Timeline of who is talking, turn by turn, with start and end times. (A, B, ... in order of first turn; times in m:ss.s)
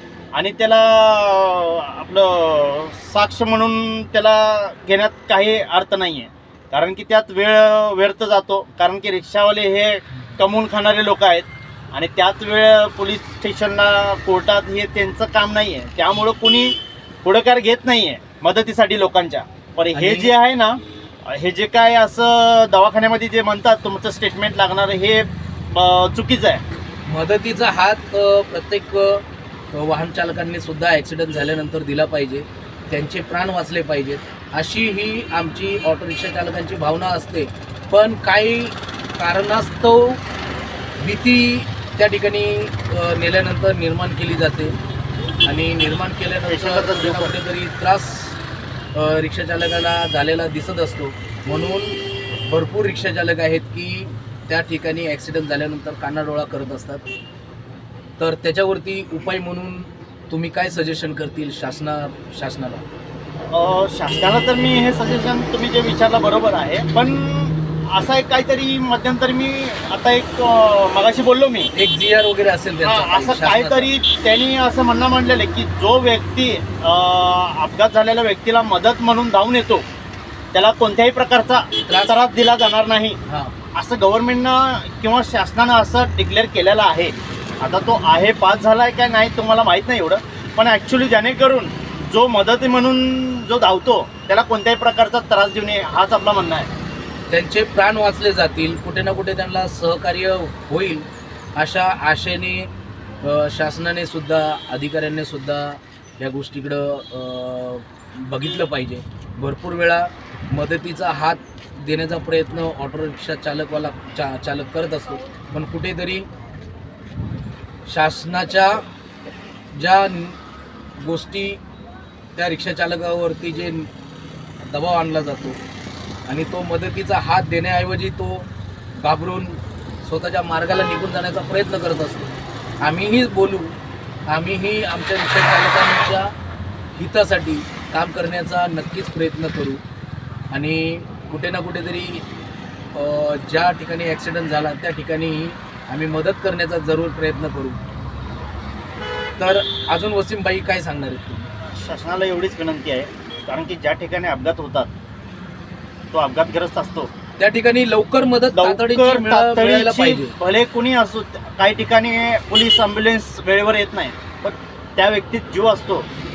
0:00.3-0:26.6 A
0:19.9-0:20.3 B
0:27.1-0:40.2 B
0:41.0-0:44.8 B
0:45.4-0:48.4 B
0:46.5-0:47.3 A
0:48.9-0:52.0 B
0:52.5-0:57.0 B
0:58.2-1:02.8 B
1:03.5-1:11.7 A
1:11.7-1:13.9 B
1:12.8-1:19.8 A
1:20.5-1:23.2 A
1:21.9-1:22.1 B
1:23.3-1:23.5 B
1:23.7-1:36.7 A
1:37.3-1:42.7 B
1:43.2-1:56.3 B
1:57.9-1:58.8 B
1:59.8-2:00.4 B
2:01.0-2:01.6 B
2:02.4-2:03.9 B
2:04.6-2:05.6 B
2:06.3-2:13.7 B
2:14.3-2:16.3 B
2:17.0-2:19.8 B
2:20.5-2:22.2 B
2:22.9-2:27.8 B
2:29.4-2:31.5 B
2:31.6-2:34.9 A
2:36.1-2:37.1 A
2:37.4-2:40.3 B
2:38.6-2:46.0 A